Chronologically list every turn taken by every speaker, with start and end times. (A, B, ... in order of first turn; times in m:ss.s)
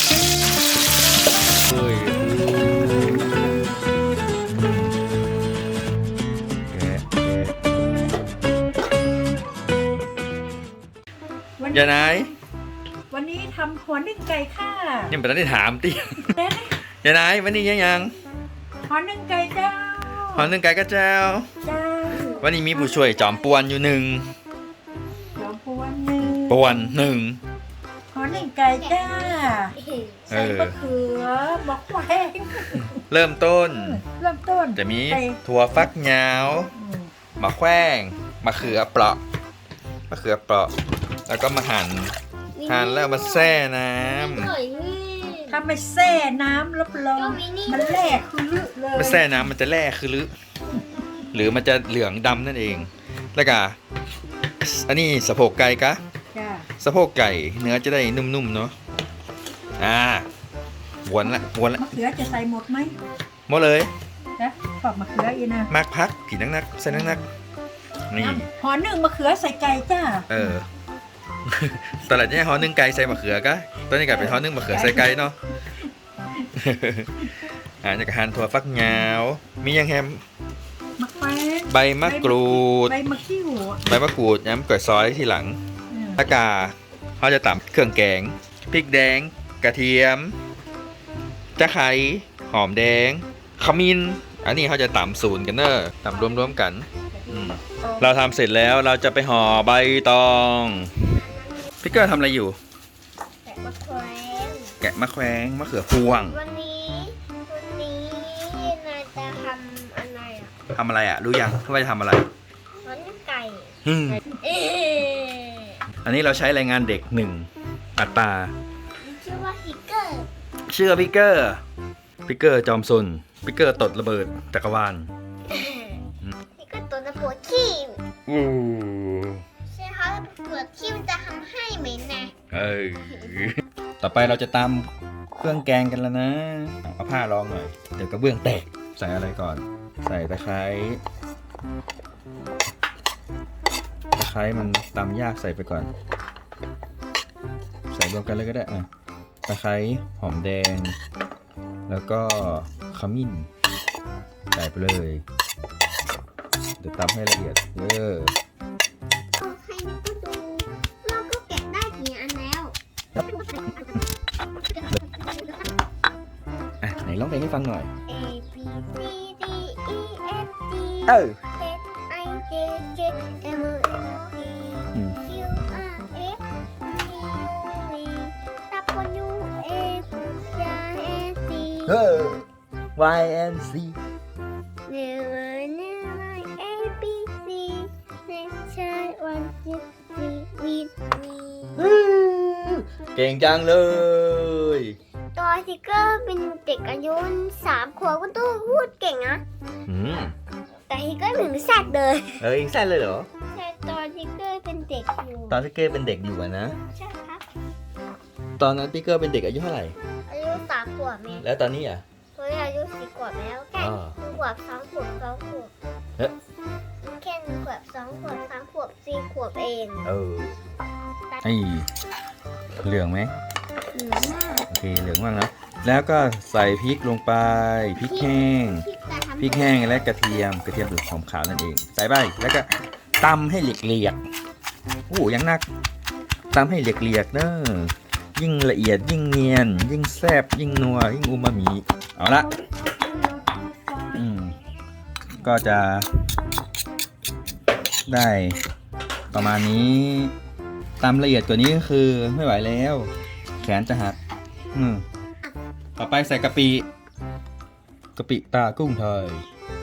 0:01.6-0:03.4 A
0:02.5-0:03.8 B
0:04.5-0:05.0 A
0:06.7-0:07.7 A
0:11.6-0:12.3 B
0:11.7-0:12.3 A
0:13.1-0:15.1 B
0:15.1-0:18.2 A
0:16.2-0:16.8 B
0:18.8-0:20.5 B
0:20.3-0:21.5 A
0:21.6-0:22.5 B
0:22.1-0:23.6 C
0:22.4-0:24.3 A
0:25.4-0:26.9 B
0:26.2-0:27.4 A
0:28.1-0:29.7 B
0:28.3-0:30.3 C
0:30.3-0:30.8 A
0:30.3-0:33.0 B
0:32.9-0:34.0 A
0:33.7-0:35.4 B
0:34.8-0:36.7 A
0:36.7-0:37.1 B
0:37.4-0:39.2 A
0:40.1-0:40.7 A
0:41.3-0:42.2 A
0:42.5-0:45.6 C
0:42.7-0:44.5 A
0:45.5-0:49.4 B
0:47.1-0:48.2 C
0:48.9-0:50.3 A
0:51.3-0:53.8 A
0:54.6-0:56.0 A
0:56.3-0:56.7 B
0:56.8-0:58.7 A
0:59.8-1:00.3 A
1:01.0-1:01.9 A
1:01.2-1:03.0 B
1:03.5-1:03.9 A
1:04.4-1:05.7 B
1:05.7-1:07.2 A
1:06.9-1:07.2 B
1:08.1-1:08.5 A
1:08.2-1:10.3 B
1:10.3-1:10.7 A
1:11.4-1:15.4 A
1:14.1-1:15.1 B
1:16.5-1:20.2 A
1:21.0-1:23.9 B
1:21.7-1:23.0 A
1:23.8-1:25.6 A
1:25.9-1:26.2 B
1:26.2-1:30.4 A
1:31.6-1:41.1 A
1:36.1-1:38.0 B
1:41.1-1:41.7 C
1:41.8-1:42.6 A
1:43.4-1:44.7 C
1:44.8-1:46.4 A
1:46.3-1:50.5 C
1:50.7-1:52.3 A
1:52.8-1:53.7 C
1:53.8-1:54.2 A
1:54.3-1:55.8 C
1:56.0-1:58.5 A
1:59.0-2:00.3 C
2:00.7-2:01.6 A
2:02.2-2:05.1 A
2:05.5-2:06.0 C
2:06.6-2:08.0 C
2:08.3-2:09.4 A
2:09.7-2:12.3 C
2:12.5-2:21.0 A
2:24.2-2:25.9 A
2:27.9-2:28.9 A
2:29.5-2:31.0 A
2:31.9-2:33.5 A
2:34.5-2:35.2 A
2:36.8-2:38.3 A
2:39.4-2:44.0 C
2:44.7-2:45.6 C
2:46.8-2:47.9 A
2:48.1-3:02.0 C
2:51.1-2:51.4 A
3:01.8-3:02.4 A
3:03.0-3:04.0 A
3:04.9-3:11.9 C
3:11.8-3:15.0 A
3:15.3-3:19.4 C
3:19.9-3:20.3 A
3:20.9-3:22.4 C
3:22.4-3:23.3 A
3:23.5-3:25.6 C
3:25.5-3:26.8 A
3:26.9-3:27.4 C
3:28.6-3:30.0 A
3:30.3-3:31.5 C
3:31.4-3:32.0 A
3:32.4-3:35.7 C
3:33.8-3:34.2 A
3:37.0-3:40.1 C
3:40.0-3:40.6 A
3:41.4-3:41.9 A
3:42.8-3:43.3 A
3:43.9-3:44.7 C
3:44.7-3:48.8 A
3:48.0-3:49.8 C
3:49.4-3:54.2 A
3:55.1-3:55.6 A
3:56.5-4:02.5 A
4:02.3-4:04.2 B
4:04.1-4:04.6 A
4:05.3-4:06.1 A
4:08.0-4:08.6 A
4:09.3-4:10.3 A
4:11.0-4:14.2 A
4:14.7-4:15.0 A
4:16.0-4:16.9 A
4:18.2-4:19.4 A